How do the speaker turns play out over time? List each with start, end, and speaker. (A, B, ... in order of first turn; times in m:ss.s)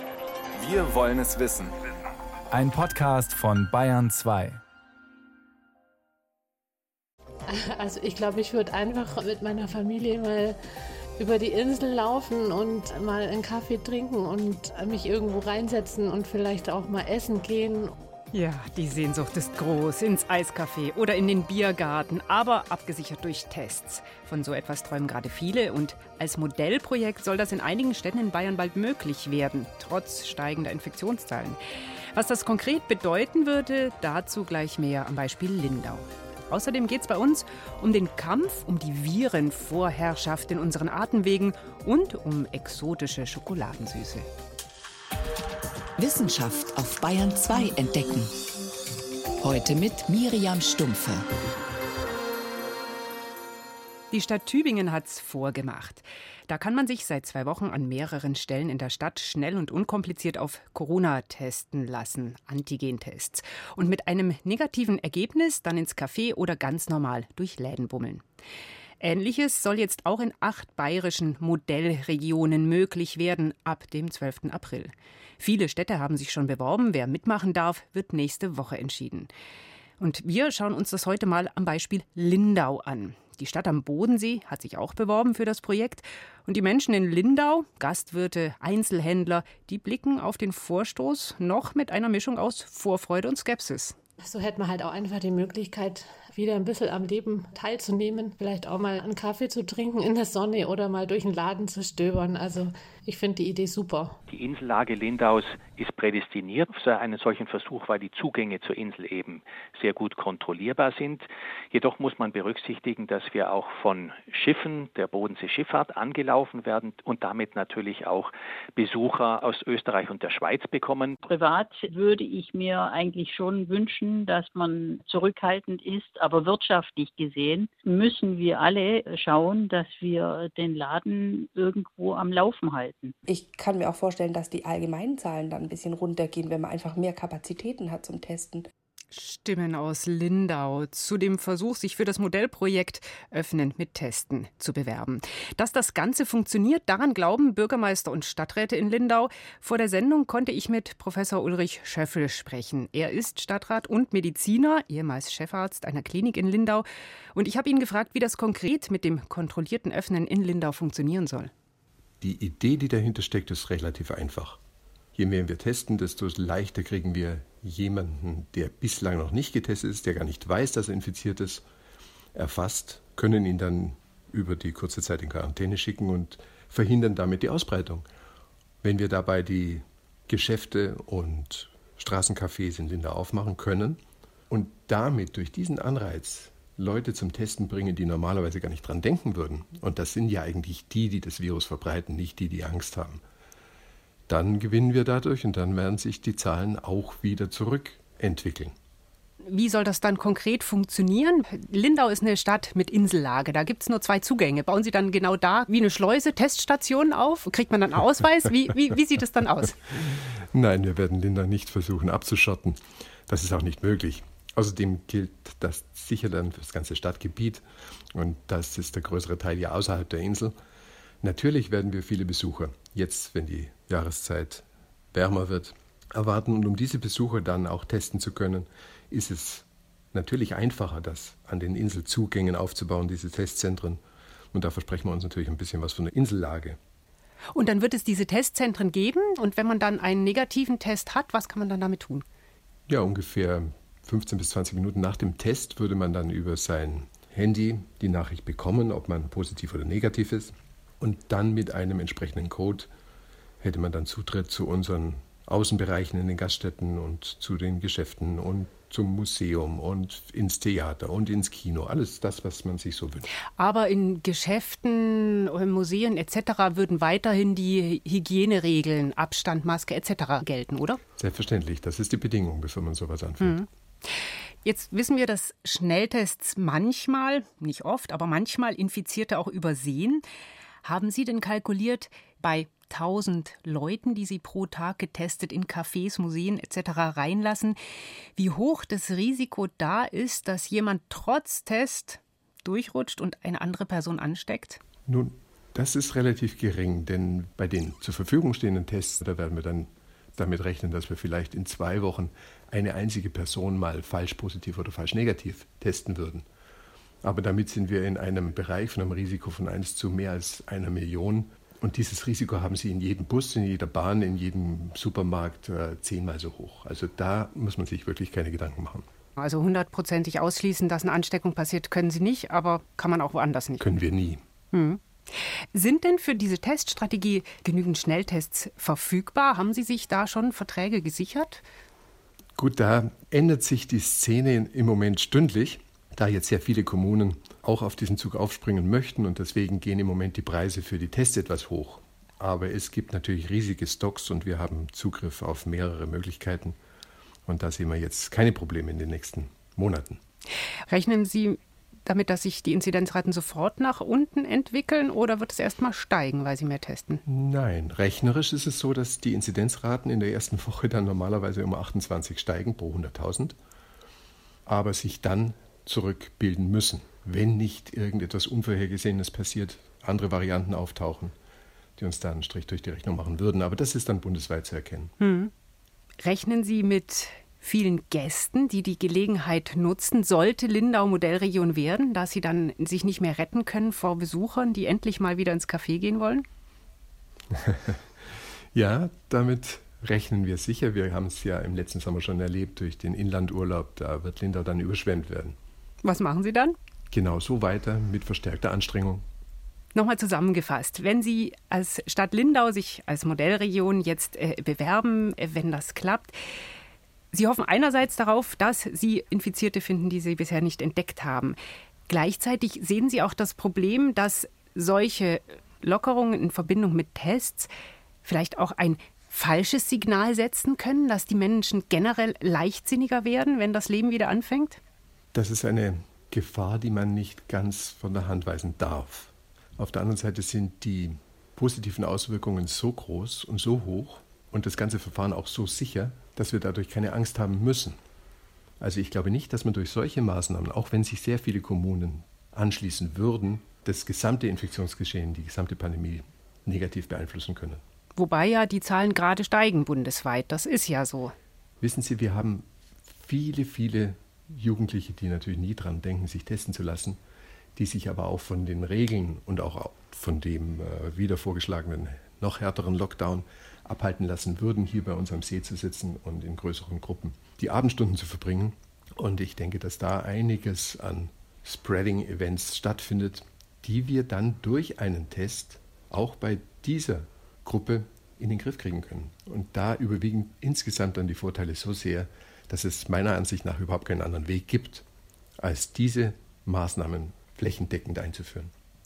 0:00.6-0:01.9 A
0:02.5-0:04.6 A
0:07.5-0:10.6 B
0:11.2-0:17.9 B
0:18.3-0:31.6 C
0:32.1-0:44.3 C
0:46.0-0:48.3 D
0:49.4-0:51.2 D
0:54.1-1:08.2 C
1:09.0-1:19.3 C
1:20.0-1:34.0 C
1:34.2-1:44.2 B
1:44.3-2:01.2 E
2:01.2-2:13.2 F
2:13.3-2:18.7 G
2:19.1-2:41.5 C
2:42.2-2:44.6 H
2:45.2-2:51.6 H
2:52.4-2:58.0 H
2:58.8-3:04.0 H
3:04.5-3:13.2 H
3:14.3-3:18.7 H
3:19.4-3:29.8 C
3:30.5-3:40.5 H
3:41.2-3:54.0 H
3:54.5-3:56.8 H
3:57.5-4:02.2 C
4:02.9-4:12.9 H
4:13.6-4:23.3 H
4:23.6-4:31.0 C
4:31.2-4:33.6 H
4:33.4-4:40.2 C
4:40.8-4:47.8 C
4:48.4-4:54.8 C
4:55.1-5:06.4 H
5:07.2-5:19.0 H
5:19.4-5:23.9 C
5:23.8-5:24.4 H
5:24.7-5:31.6 C
5:32.6-5:46.8 H
5:47.5-5:50.2 H
5:50.9-5:57.2 C
5:57.3-6:03.6 H
6:04.7-6:11.3 H
6:12.0-6:15.1 H
6:15.2-6:15.5 C
6:16.2-6:26.4 C
6:27.5-6:28.0 H
6:28.7-6:35.6 H
6:36.0-6:36.8 C
6:37.1-6:39.2 H
6:39.9-6:46.4 C
6:47.3-6:51.6 C
6:52.1-6:57.7 C
6:58.2-7:04.8 C
7:05.3-7:18.0 H
7:18.8-7:27.8 H
7:28.2-7:31.3 C
7:31.8-7:32.6 H
7:33.2-7:37.2 H
7:37.8-8:05.0 H
8:05.6-8:08.7 H